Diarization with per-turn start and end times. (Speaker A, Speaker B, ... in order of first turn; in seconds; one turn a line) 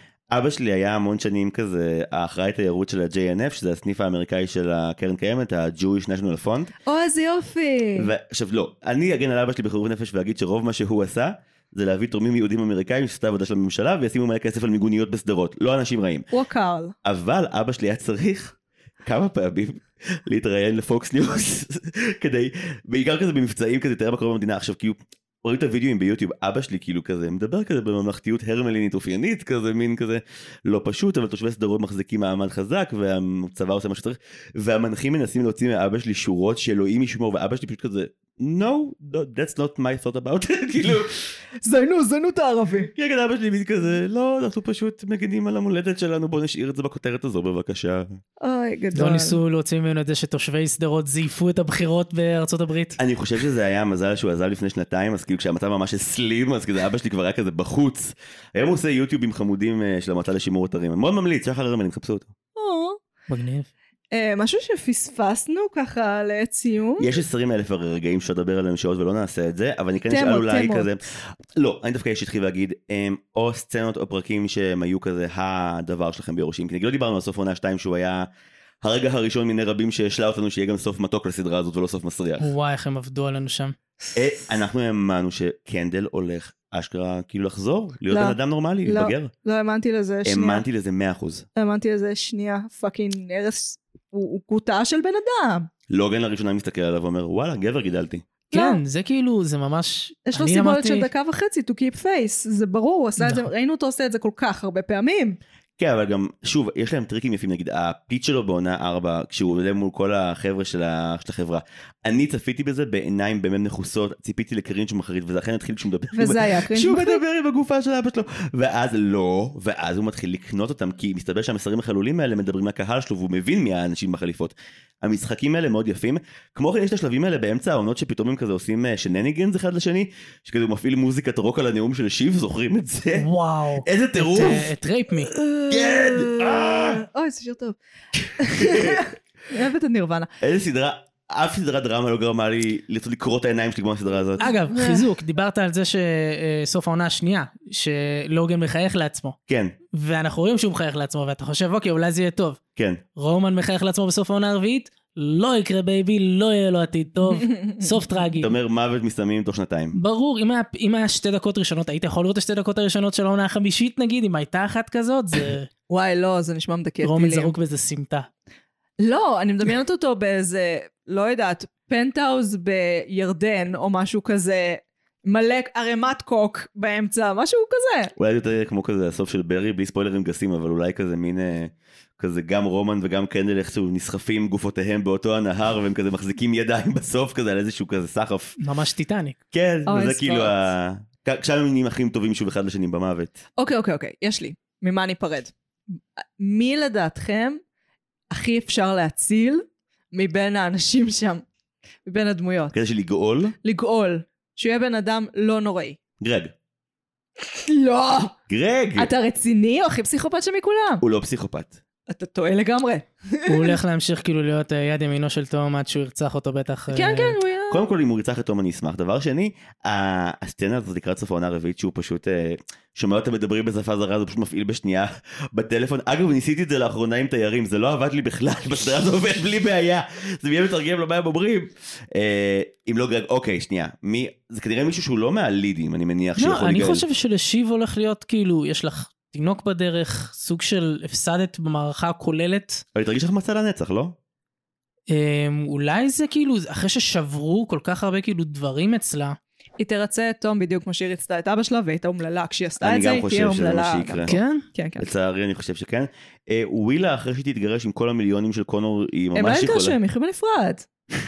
Speaker A: 0.3-6.7
Speaker B: 6.8-8.1
Speaker A: 7.9-16.3
Speaker B: 16.3-16.9
Speaker A: 17.0-41.1
Speaker B: 41.6-42.9
Speaker A: 42.9-48.2
Speaker B: 48.4-49.4
Speaker C: 48.9-53.0
Speaker A: 53.0-62.3
Speaker B: 62.5-63.0
Speaker C: 63.3-63.7
Speaker B: 64.1-67.1
Speaker A: 67.0-78.3
Speaker B: 70.1-70.9
Speaker A: 78.8-82.5
Speaker C: 82.4-83.8
Speaker A: 84.1-89.3
Speaker B: 88.1-90.6
Speaker A: 90.2-91.5
Speaker B: 91.5-95.7
Speaker A: 95.9-98.3
Speaker C: 98.5-101.1
Speaker B: 98.5-98.8
Speaker B: 100.3-105.4
Speaker C: 103.2-103.5
Speaker A: 105.8-133.3
Speaker B: 116.1-117.2
Speaker C: 133.2-135.3
Speaker A: 133.8-134.7
Speaker B: 135.4-137.8
Speaker A: 135.7-137.0
Speaker B: 138.4-140.3
Speaker A: 138.5-139.0
Speaker A: 140.4-144.5
Speaker C: 144.4-149.4
Speaker B: 144.4-145.1
Speaker A: 149.5-149.7
Speaker C: 149.9-152.6
Speaker A: 152.8-153.0
Speaker C: 153.1-158.5
Speaker A: 158.4-159.9
Speaker C: 159.9-165.7
Speaker B: 165.9-167.5
Speaker C: 167.0-168.3
Speaker B: 169.0-178.1
Speaker A: 178.2-188.6
Speaker C: 188.6-189.4
Speaker A: 189.5-193.4
Speaker B: 189.9-190.6
Speaker B: 193.6-195.5
Speaker B: 196.4-197.6
Speaker B: 198.3-201.4
Speaker B: 202.1-202.7
Speaker A: 202.7-203.6
Speaker B: 203.6-206.0
Speaker A: 206.2-206.5
Speaker B: 207.4-208.3
Speaker A: 208.5-209.1
Speaker B: 209.0-211.0
Speaker A: 211.0-211.8
Speaker B: 212.1-213.8
Speaker C: 213.5-217.4
Speaker B: 216.9-217.9
Speaker A: 217.7-237.1
Speaker C: 236.4-242.8
Speaker A: 242.9-244.2
Speaker C: 245.1-249.4
Speaker B: 249.8-255.1
Speaker A: 252.8-254.3
Speaker C: 254.3-254.6
Speaker A: 255.0-260.0
Speaker B: 259.3-260.9